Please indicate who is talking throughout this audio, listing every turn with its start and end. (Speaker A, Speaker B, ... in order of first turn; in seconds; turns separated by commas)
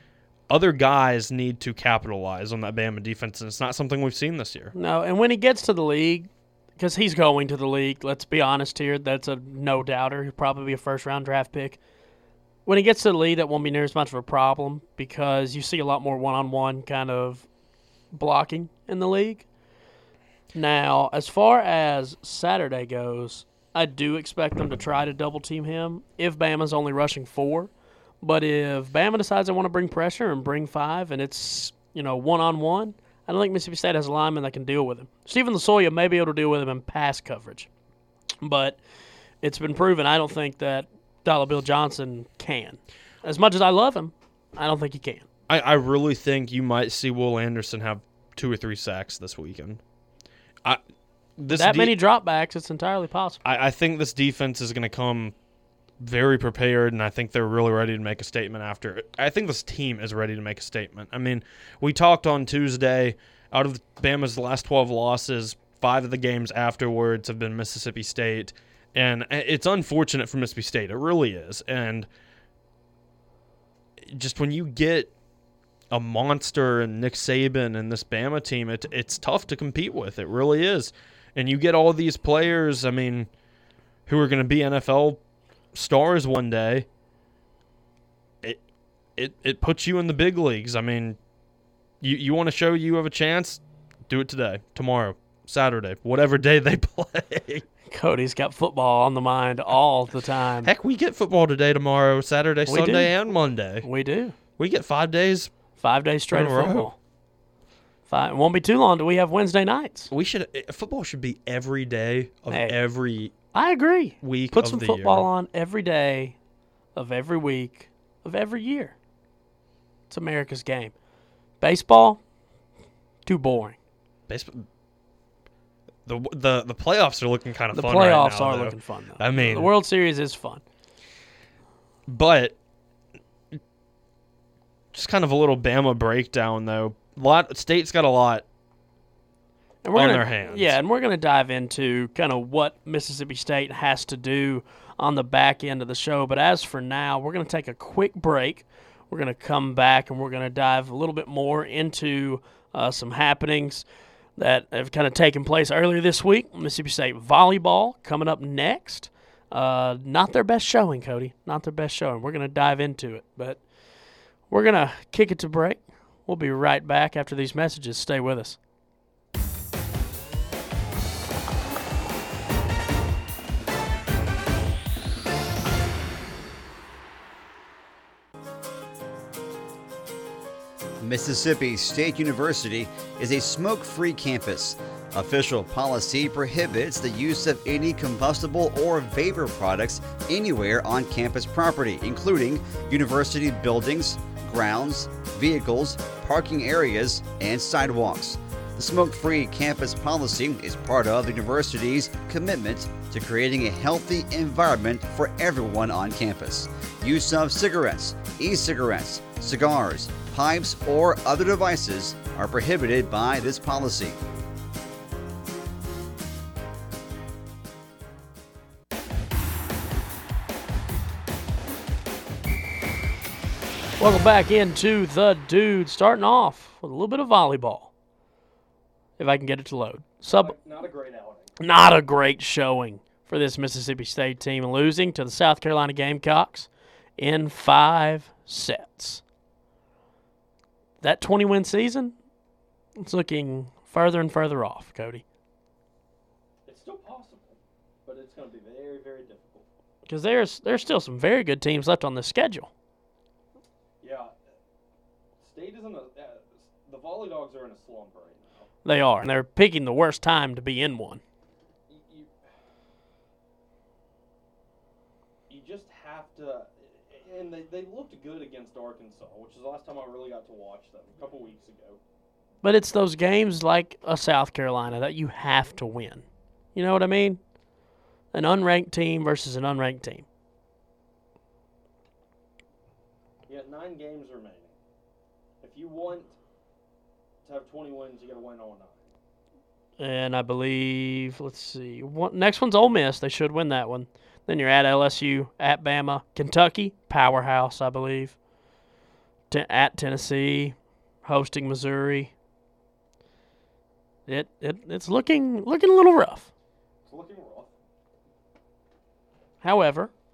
Speaker A: 0.5-4.7, Speaker B: 4.8-11.8, Speaker B: 12.7-17.5, Speaker B: 18.1-19.5, Speaker B: 20.5-27.7, Speaker B: 28.2-37.7, Speaker B: 38.4-38.8, Speaker B: 39.4-45.3, Speaker A: 45.5-49.8, Speaker A: 51.4-52.0, Speaker B: 51.5-53.4, Speaker A: 53.4-55.4, Speaker A: 56.0-72.1, Speaker A: 74.1-75.1, Speaker A: 75.9-83.3, Speaker A: 84.1-85.2, Speaker A: 85.7-86.9, Speaker A: 89.2-91.2, Speaker A: 92.0-97.7, Speaker B: 97.9-100.7, Speaker A: 100.6-103.9, Speaker B: 102.7-103.2, Speaker B: 103.8-104.4, Speaker A: 104.6-105.5, Speaker B: 105.8-107.0, Speaker A: 106.3-106.9, Speaker B: 108.1-110.1, Speaker A: 110.1-113.3, Speaker B: 112.5-112.8, Speaker B: 113.5-116.4, Speaker A: 114.2-115.3, Speaker B: 117.0-119.0, Speaker B: 120.1-120.9, Speaker B: 121.6-122.2, Speaker B: 123.3-123.8, Speaker A: 124.3-124.7, Speaker A: 126.1-129.7, Speaker B: 127.7-130.6, Speaker A: 132.1-132.6, Speaker A: 134.9-138.5, Speaker B: 139.8-153.8, Speaker A: 139.9-140.8, Speaker B: 154.4-163.7, Speaker B: 164.5-168.6, Speaker C: 181.0-214.2, Speaker B: 224.0-227.9, Speaker B: 229.2-230.5, Speaker D: 230.3-231.5, Speaker B: 231.6-239.2, Speaker B: 241.0-242.2, Speaker B: 243.0-245.2, Speaker D: 246.7-249.7, Speaker B: 250.1-252.7, Speaker D: 254.0-254.3, Speaker D: 255.4-258.7, Speaker B: 258.8-261.2, Speaker D: 261.9-262.3, Speaker D: 265.5-272.0, Speaker B: 272.6-277.4, Speaker B: 278.3-280.3, Speaker D: 283.5-284.7, Speaker D: 285.6-286.3, Speaker D: 287.4-289.1, Speaker B: 290.0-298.4, Speaker B: 299.5-302.3, Speaker B: 304.3-306.5, Speaker D: 307.1-307.7, Speaker B: 309.6-310.1